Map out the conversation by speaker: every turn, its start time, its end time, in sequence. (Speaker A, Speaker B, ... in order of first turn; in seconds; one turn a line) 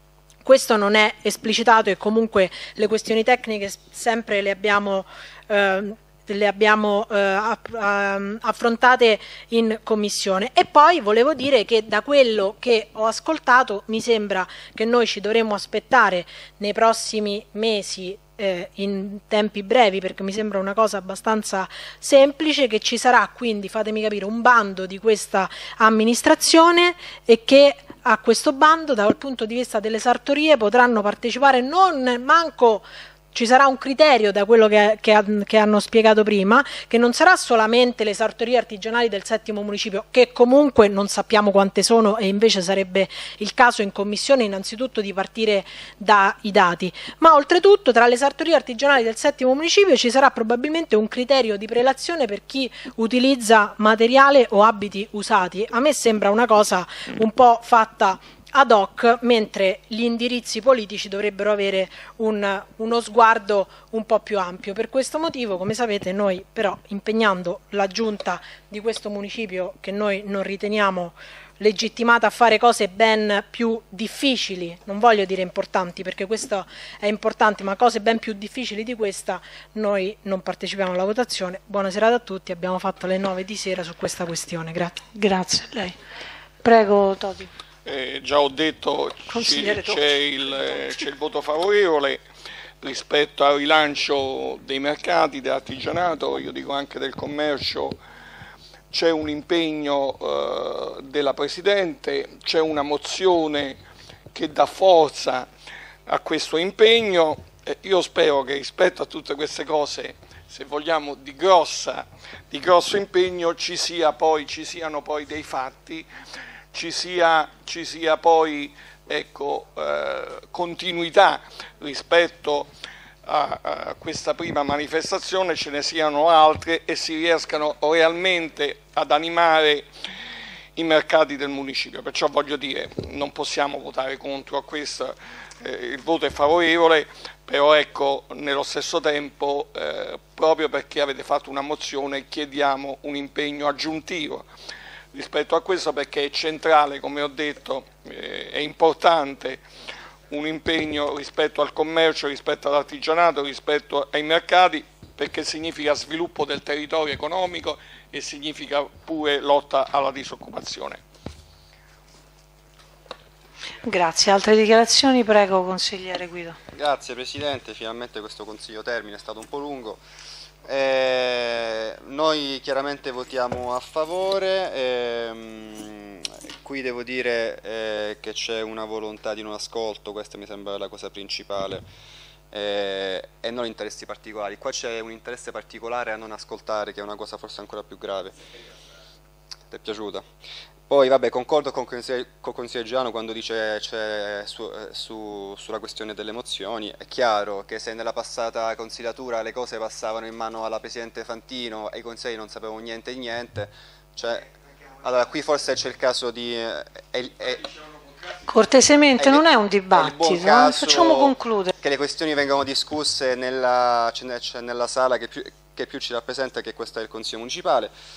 Speaker A: 0.5-85.0
Speaker B: 85.1-86.0
Speaker B: 86.6-87.5
Speaker C: 87.8-92.2
Speaker B: 89.3-90.1
Speaker C: 92.8-98.0
Speaker C: 98.9-103.8
Speaker C: 104.3-105.5
Speaker C: 106.1-116.1
Speaker C: 116.7-122.7
Speaker C: 123.2-129.9
Speaker C: 130.8-144.5
Speaker C: 145.1-149.6
Speaker C: 150.3-161.0
Speaker B: 163.8-166.6
Speaker D: 166.7-170.0
Speaker D: 170.7-181.9
Speaker D: 182.5-188.4
Speaker D: 189.7-190.3
Speaker D: 190.9-207.8
Speaker B: 208.5-211.7
Speaker D: 209.1-217.9